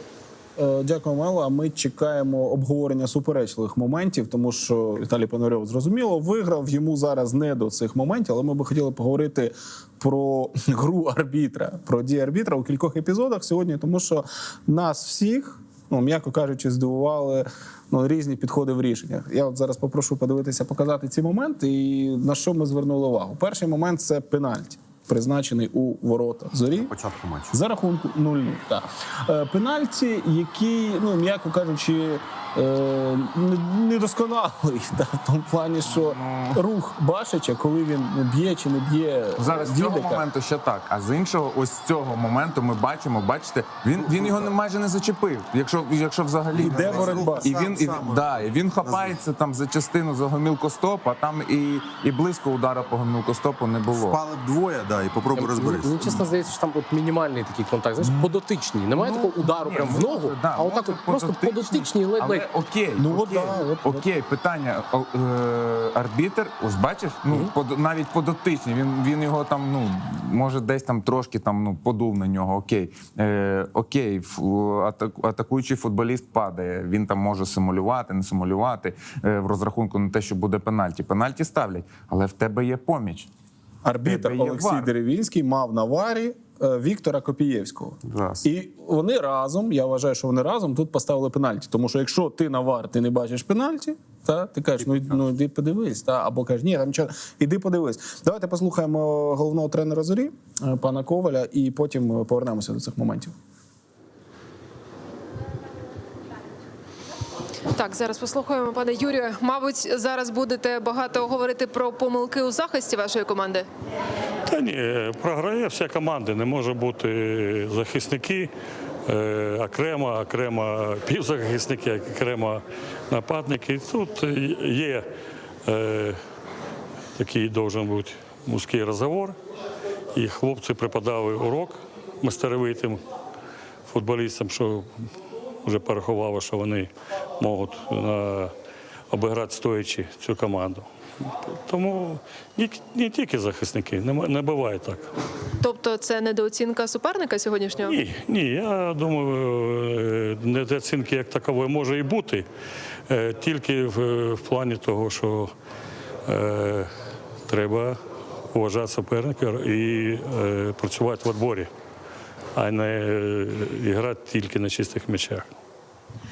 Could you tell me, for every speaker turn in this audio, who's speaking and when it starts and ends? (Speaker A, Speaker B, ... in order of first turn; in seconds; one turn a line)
Speaker A: 0.6-26.9
Speaker B: 26.8-27.5
Speaker A: 27.5-40.2
Speaker C: 35.9-36.6
Speaker C: 39.4-54.2
Speaker A: 44.0-44.5
Speaker B: 46.5-49.2
Speaker A: 46.5-47.6
Speaker B: 53.9-56.3
Speaker D: 55.3-62.5
Speaker C: 58.0-58.4
Speaker C: 59.0-83.3
Speaker A: 63.0-64.0
Speaker A: 83.8-103.3
Speaker C: 84.0-84.9
Speaker B: 88.1-88.5
Speaker E: 107.8-113.7
Speaker F: 114.5-118.5
Speaker F: 119.1-125.1
Speaker F: 125.7-126.2
Speaker F: 127.2-129.3
Speaker F: 130.1-133.0
Speaker F: 133.9-135.1
Speaker F: 135.6-138.5
Speaker F: 139.1-145.1
Speaker E: 145.6-147.9
Speaker F: 147.9-152.5
Speaker F: 153.1-155.5
Speaker F: 156.3-156.9
Speaker F: 157.5-158.0
Speaker F: 158.5-161.7
Speaker F: 162.6-165.5